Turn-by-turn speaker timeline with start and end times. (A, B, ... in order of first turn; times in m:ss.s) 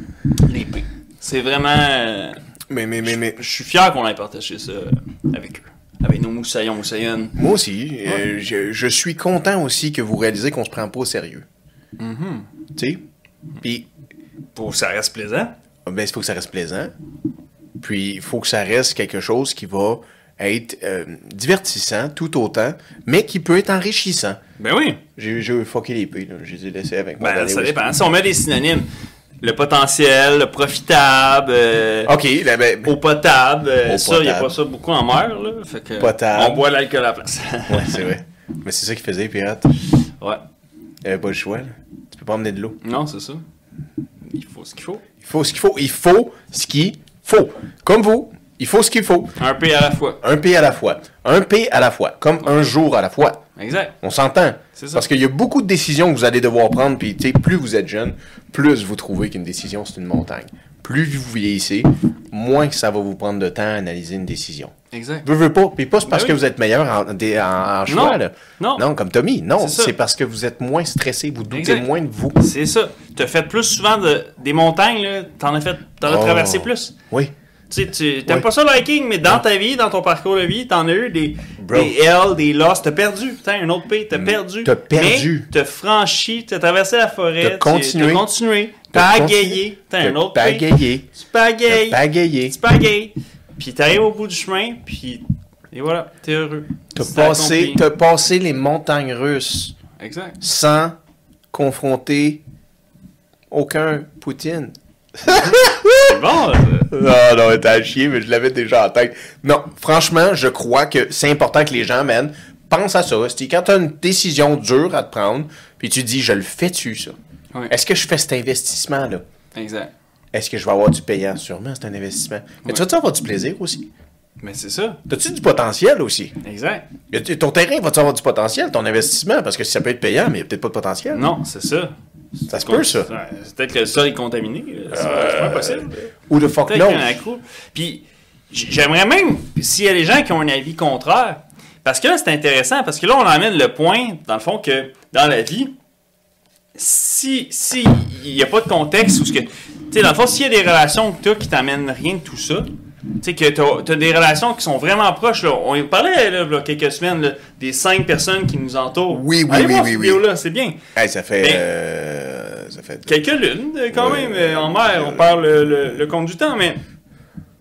0:00.4-0:02.4 A
0:02.7-0:03.4 B
0:03.0-0:07.4 A
0:07.4-0:11.4 B
0:12.0-0:12.5 A
0:12.7-0:13.0 B
0:13.6-0:13.9 B
0:14.5-0:15.5 A
0:15.8-0:16.9 B
0:17.8-0:24.4 B
0:24.6-0:25.0 A
0:25.2-0:27.8 B
0:27.2-0:28.8 A
0:29.4-0:32.1 A
0:32.0-0:33.0 B
0:32.8-0:38.1 A
0:33.8-0:34.5 B
0:36.0-0:36.7 B
0:37.7-0:39.7 B
0:41.0-0:42.8 B
0:42.8-0:43.4 A
0:44.2-0:45.0 A
0:45.2-0:49.3 B
0:49.4-0:50.2 A
0:50.2-0:53.4 B
0:53.6-0:53.9 A
0:54.0-1:12.4 B
0:54.8-0:55.0 A
1:04.9-1:05.3 A
1:06.1-1:06.4 A
1:07.9-1:08.8 A
1:09.6-1:09.9 A
1:11.5-1:16.9 A
1:16.0-1:17.3 B
1:17.7-1:37.8 A
1:21.6-1:21.9 B
1:24.1-1:25.5 B
1:27.4-1:28.3 B
1:28.9-1:31.1 B
1:31.7-1:32.6 B
1:36.9-1:39.7 B
1:40.0-1:40.4 A
1:40.4-1:41.0 B
1:41.5-1:42.4 B
1:43.5-1:46.2 B
1:45.3-1:46.9 A
1:46.9-1:57.2 B
1:57.7-1:59.2 B
1:59.5-1:59.9 A
2:00.3-2:03.8 B
2:04.4-2:05.0 A
2:05.1-2:06.3 B
2:06.4-2:06.8 A
2:07.1-2:11.3 B
2:11.1-2:11.9 A
2:12.5-2:15.9 A
2:12.5-2:13.1 B
2:14.9-2:17.2 B
2:16.7-2:25.7 A
2:26.8-2:32.7 A
2:33.2-2:40.8 A
2:39.1-2:40.2 B
2:40.9-2:43.2 B
2:41.4-2:41.6 A
2:43.0-2:46.8 A
2:43.9-2:45.3 B